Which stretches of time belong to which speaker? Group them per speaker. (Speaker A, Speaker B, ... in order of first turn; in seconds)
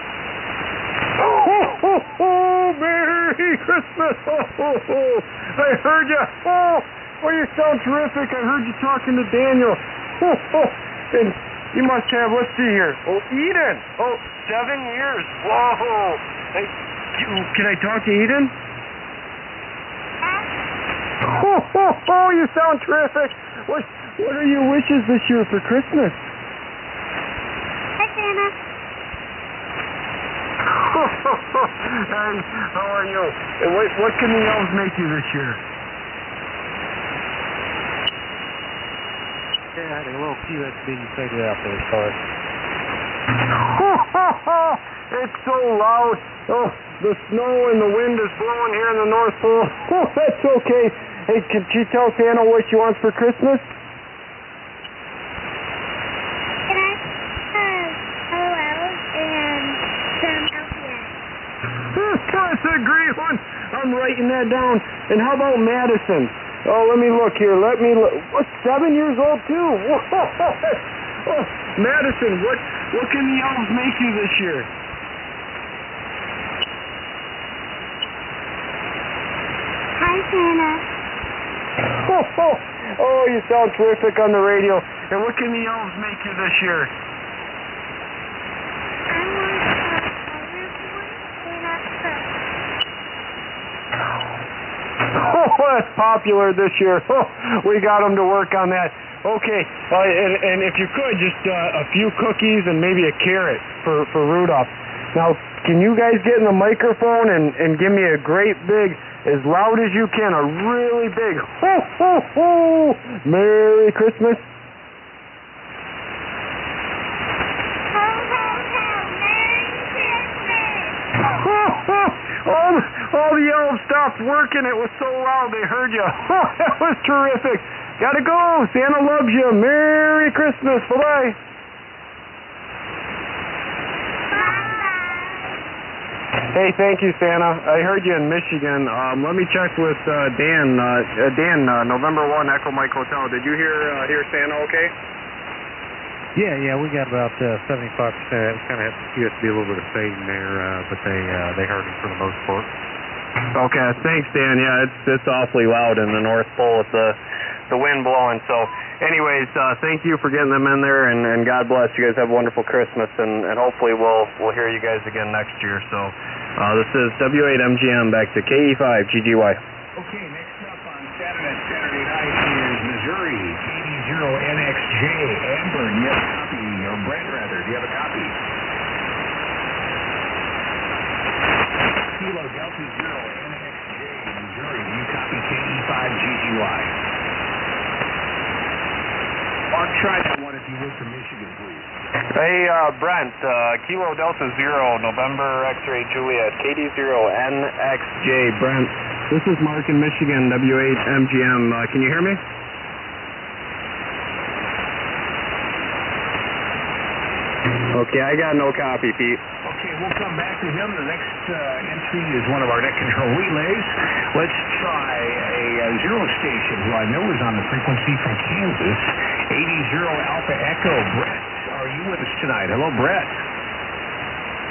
Speaker A: 1.2-18.5, 21.2-26.2, 30.7-35.6, 43.5-53.6, 61.9-74.7, 81.9-86.9, 95.1-114.4, 121.2-131.4, 136.5-144.9, 153.5-169.6, 192.3-202.4, 207.9-209.4
Speaker B: 28.0-28.5, 56.7-61.1, 80.0-80.8, 89.1-92.2, 117.9-121.0, 134.3-135.5
Speaker C: 39.8-42.1, 146.3-152.7
Speaker D: 169.9-178.4, 182.1-186.9, 189.7-191.9, 209.6-223.3